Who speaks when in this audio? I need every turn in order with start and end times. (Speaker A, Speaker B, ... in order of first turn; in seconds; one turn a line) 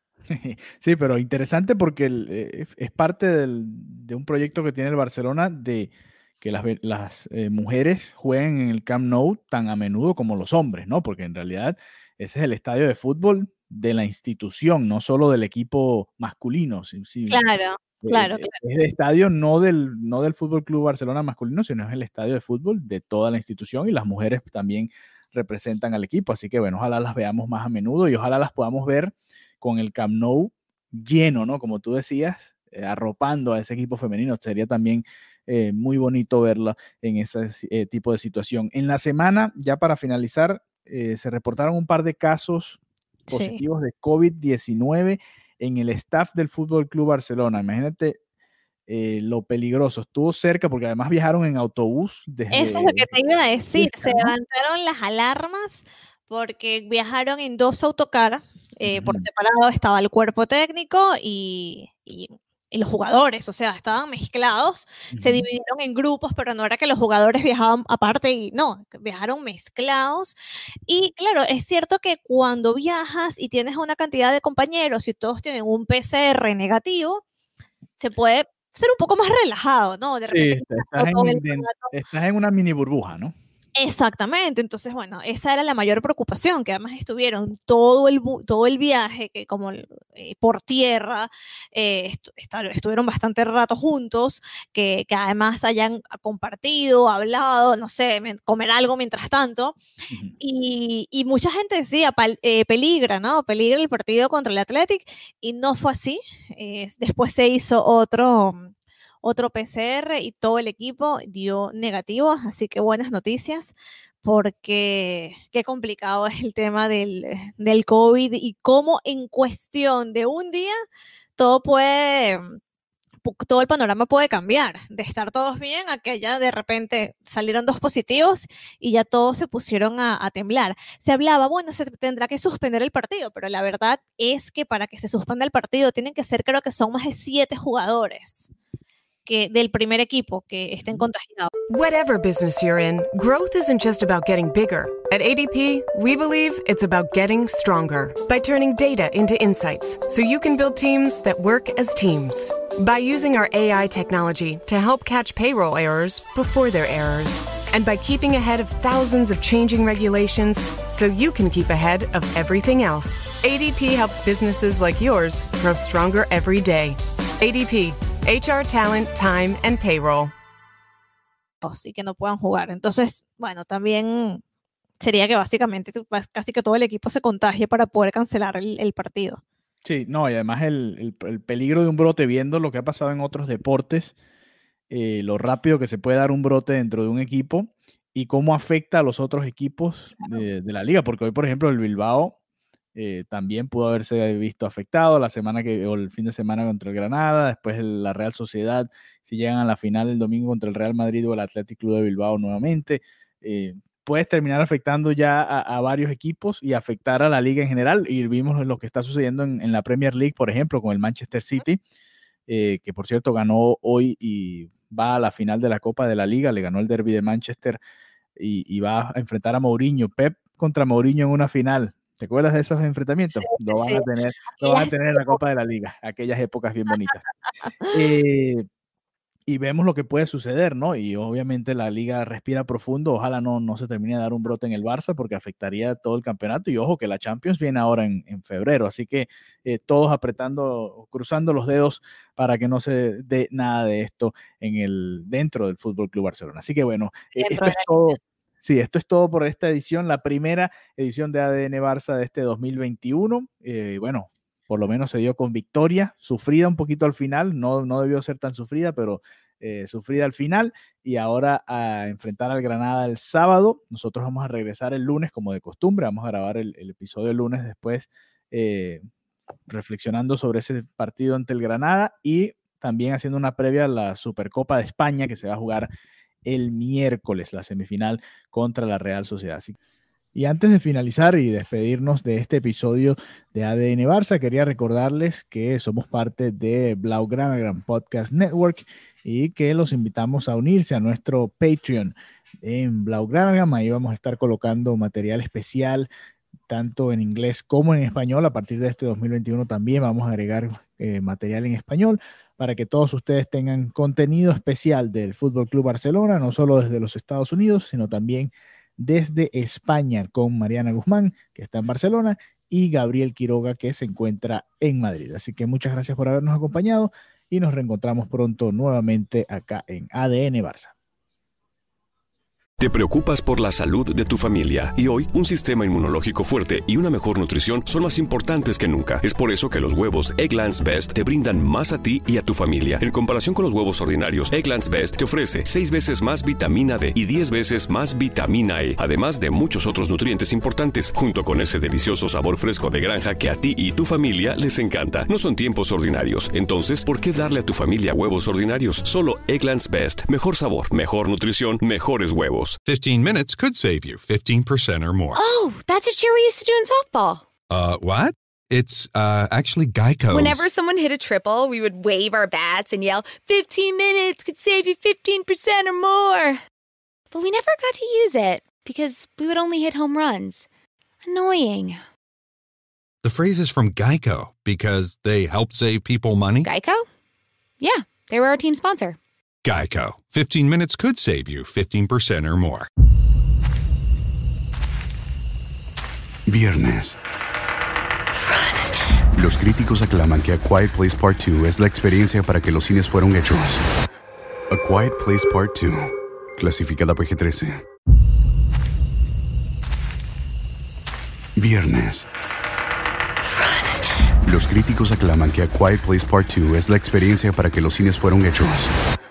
Speaker A: 0.3-17.4
Speaker B: 17.3-18.5
Speaker A: 18.0-42.8
Speaker B: 43.3-43.6
Speaker A: 43.3-48.2
Speaker A: 48.9-53.1
Speaker B: 52.5-70.3
Speaker A: 53.7-54.3
Speaker A: 58.8-59.2
Speaker A: 65.1-65.5
Speaker B: 70.9-77.2
Speaker B: 78.0-81.9
Speaker A: 80.3-83.3
Speaker B: 83.8-99.8
Speaker B: 100.4-108.7
Speaker B: 109.2-120.7
Speaker B: 121.4-122.5
Speaker B: 123.2-138.5
Speaker B: 139.2-141.5
Speaker C: 141.7-170.3
Speaker B: 171.6-174.4
Speaker B: 175.0-179.4
Speaker A: 179.8-184.1
Speaker A: 184.9-192.3
Speaker A: 192.9-211.8
Speaker A: 212.5-217.8
Speaker A: 218.3-227.2
Speaker B: 223.3-225.4
Speaker A: 227.9-228.7
Speaker A: 229.5-269.0
Speaker B: 247.3-247.9
Speaker A: 269.7-275.9
Speaker A: 276.4-279.7
Speaker A: 280.3-296.1
Speaker A: 296.7-320.9
Speaker D: 322.8-352.8
Speaker E: 352.9-355.4
Speaker F: 355.4-357.4
Speaker E: 357.7-360.6
Speaker F: 360.3-366.6
Speaker F: 367.3-370.6
Speaker F: 371.2-372.0
Speaker E: 373.2-376.7
Speaker F: 376.6-377.1
Speaker F: 377.8-379.2
Speaker E: 379.6-382.9
Speaker G: 386.5-387.2
Speaker G: 389.3-393.8
Speaker G: 394.7-397.8
Speaker G: 401.6-402.3
Speaker G: 404.4-408.9